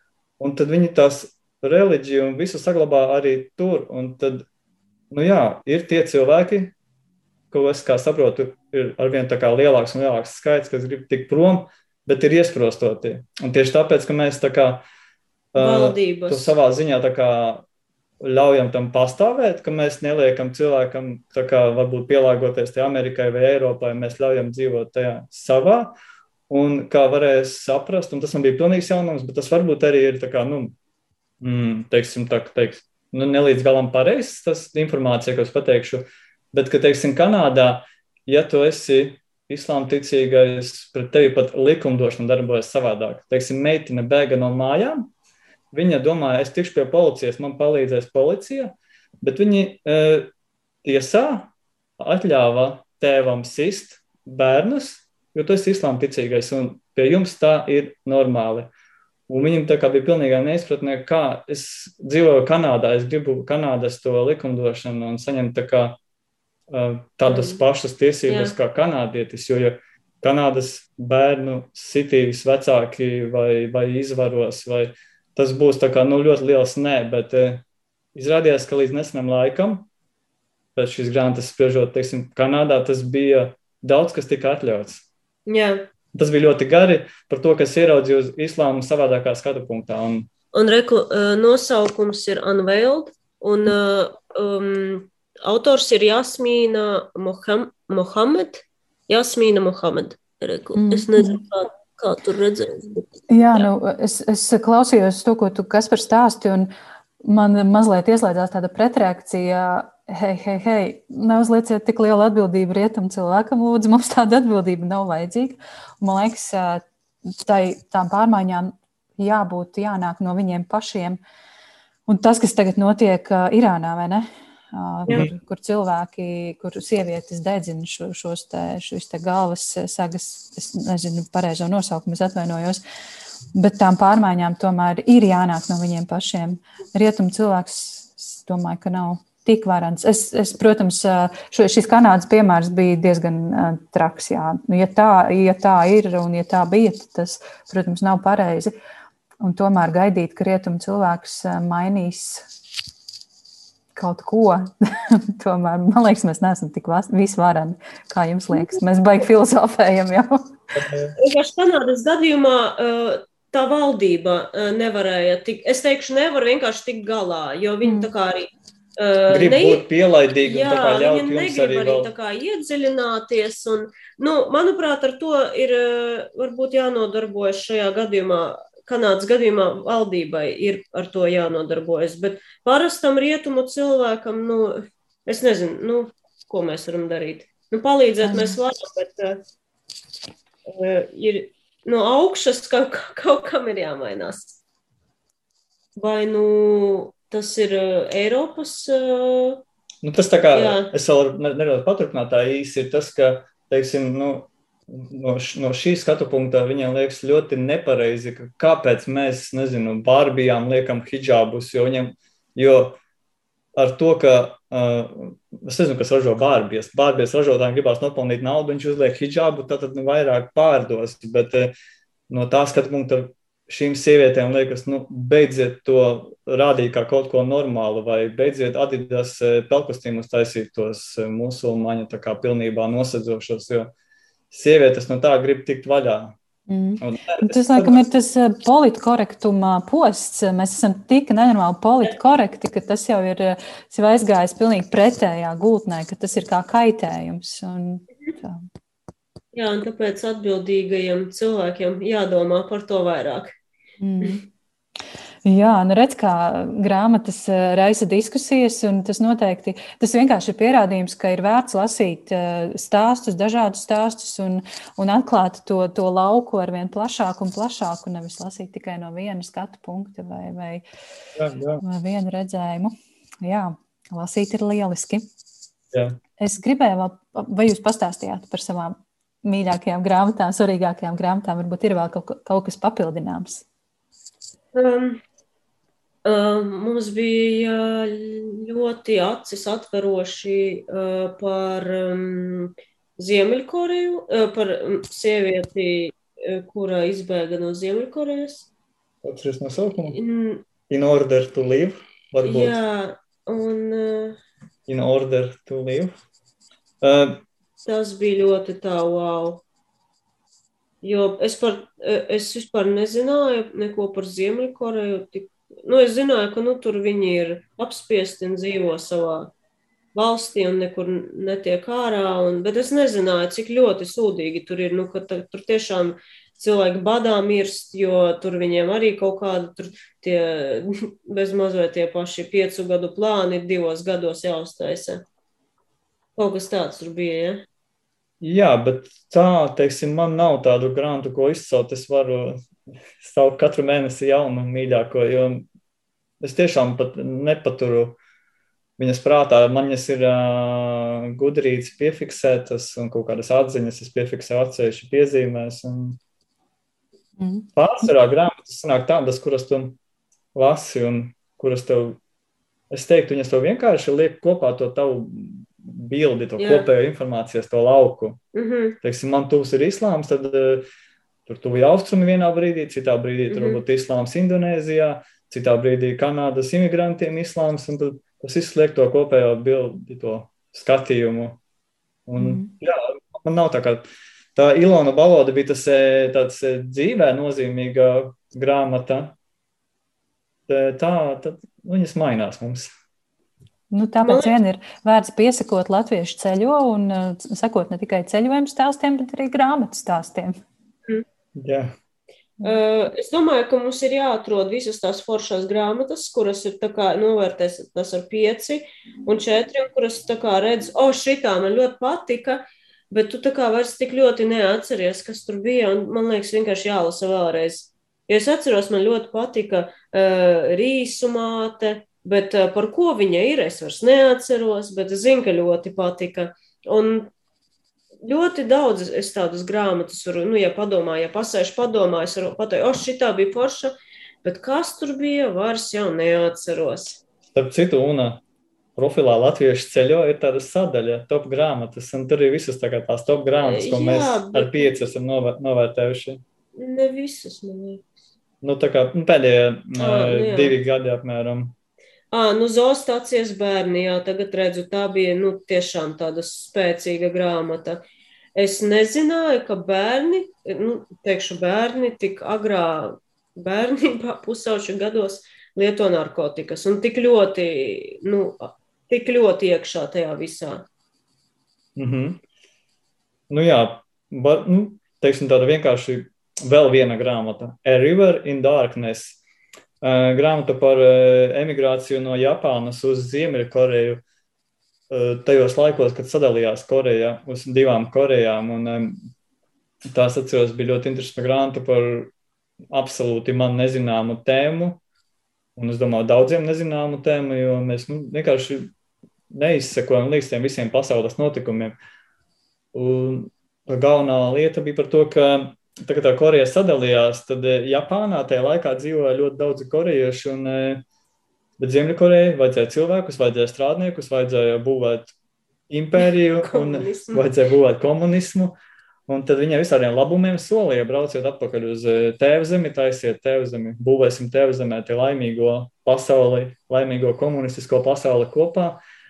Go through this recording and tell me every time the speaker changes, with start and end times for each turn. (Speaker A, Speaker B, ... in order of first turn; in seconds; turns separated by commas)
Speaker A: 0.4-4.5, Speaker A: 5.1-6.7, Speaker A: 7.5-14.8, Speaker A: 15.5-17.7, Speaker B: 15.6-16.5, Speaker A: 18.2-25.9, Speaker A: 26.5-30.8, Speaker A: 31.4-45.1, Speaker A: 45.7-50.3, Speaker A: 50.8-58.7, Speaker A: 59.3-66.0, Speaker A: 66.7-79.9, Speaker B: 67.3-67.6, Speaker B: 68.3-68.5, Speaker A: 80.8-85.1, Speaker B: 85.5-85.9, Speaker A: 86.1-90.3, Speaker B: 90.5-103.7, Speaker C: 100.8-101.4, Speaker C: 103.3-106.7, Speaker C: 107.2-116.9, Speaker C: 117.4-121.2, Speaker C: 122.1-132.8, Speaker C: 133.5-148.7, Speaker C: 149.4-152.5, Speaker C: 153.9-160.8, Speaker A: 160.8-161.2, Speaker B: 161.2-169.8, Speaker C: 167.8-168.1, Speaker A: 169.3-172.1, Speaker B: 170.4-189.4, Speaker C: 188.2-188.6, Speaker B: 190.7-194.6, Speaker B: 196.0-199.6, Speaker A: 200.0-213.0, Speaker B: 200.5-200.9, Speaker A: 213.8-221.7, Speaker A: 222.3-233.9, Speaker A: 234.5-236.4, Speaker C: 236.7-248.7, Speaker A: 237.0-238.0, Speaker B: 249.5-253.5, Speaker C: 254.0-254.4, Speaker C: 255.4-270.8, Speaker A: 271.4-271.8, Speaker C: 271.8-275.2, Speaker C: 276.4-283.6, Speaker B: 284.7-285.2, Speaker B: 286.2-298.7, Speaker A: 299.2-300.2, Speaker B: 300.0-300.6, Speaker A: 300.9-302.8, Speaker B: 302.4-304.4, Speaker A: 304.9-306.2, Speaker A: 307.0-307.4, Speaker B: 307.8-309.6, Speaker B: 311.0-319.5, Speaker B: 320.1-335.2, Speaker B: 336.4-337.6, Speaker A: 338.4-342.6, Speaker A: 343.2-345.7, Speaker A: 346.4-348.2, Speaker A: 349.0-356.2, Speaker C: 357.4-357.7, Speaker A: 357.8-360.0, Speaker A: 360.5-362.2, Speaker A: 362.9-368.4, Speaker B: 366.6-366.9, Speaker B: 368.5-369.0, Speaker A: 369.0-370.9, Speaker A: 371.5-381.6, Speaker B: 373.5-373.8, Speaker A: 382.3-389.4, Speaker C: 382.4-382.7, Speaker A: 390.7-392.9, Speaker C: 393.9-400.6, Speaker B: 394.2-394.6, Speaker A: 401.6-401.9, Speaker B: 402.6-427.3, Speaker B: 428.2-437.2, Speaker A: 437.5-438.4, Speaker A: 439.0-446.4, Speaker B: 443.6-445.0, Speaker B: 446.8-448.1, Speaker A: 448.6-451.8, Speaker B: 450.0-450.8, Speaker B: 452.3-458.0, Speaker B: 458.6-470.9, Speaker A: 472.0-472.4, Speaker A: 473.5-479.4, Speaker A: 480.0-484.2, Speaker A: 485.1-489.2, Speaker A: 490.1-492.3, Speaker A: 492.9-495.0, Speaker A: 495.8-498.9, Speaker A: 499.5-502.0, Speaker A: 502.9-511.0, Speaker A: 511.8-515.3, Speaker A: 515.9-518.8, Speaker B: 516.6-517.5, Speaker A: 519.3-529.0